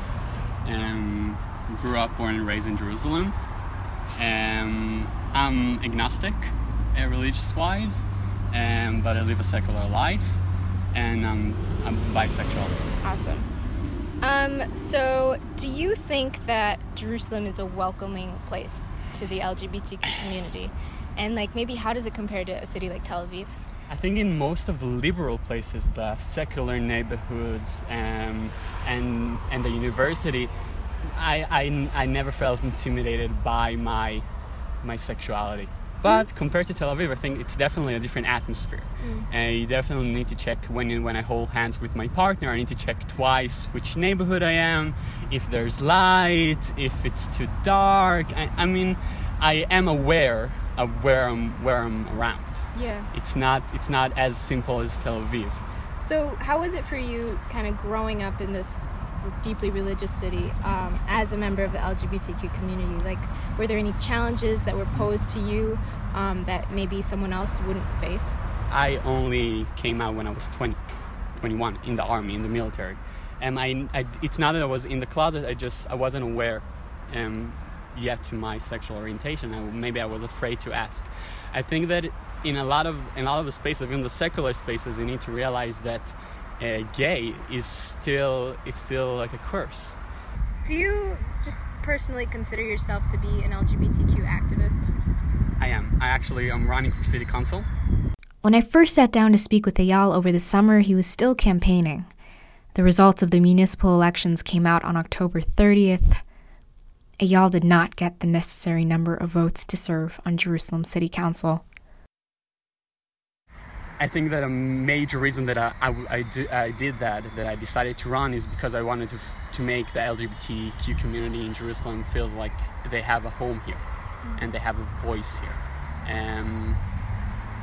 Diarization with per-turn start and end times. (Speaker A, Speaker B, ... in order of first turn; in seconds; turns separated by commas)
Speaker A: 0.6-3.3, Speaker A: 4.2-10.4, Speaker A: 10.9-12.8, Speaker B: 13.0-13.5, Speaker B: 14.2-23.6, Speaker A: 23.9-30.5, Speaker A: 31.1-34.2, Speaker A: 34.8-55.6, Speaker B: 52.7-53.1, Speaker B: 56.0-68.4, Speaker A: 68.7-70.8, Speaker A: 71.4-90.0, Speaker B: 90.6-94.9, Speaker A: 95.6-97.7, Speaker C: 98.4-102.1, Speaker B: 100.3-100.8, Speaker C: 102.8-106.2, Speaker B: 102.9-104.4, Speaker C: 107.2-111.6, Speaker B: 109.5-109.8, Speaker A: 114.0-123.8, Speaker A: 124.3-126.8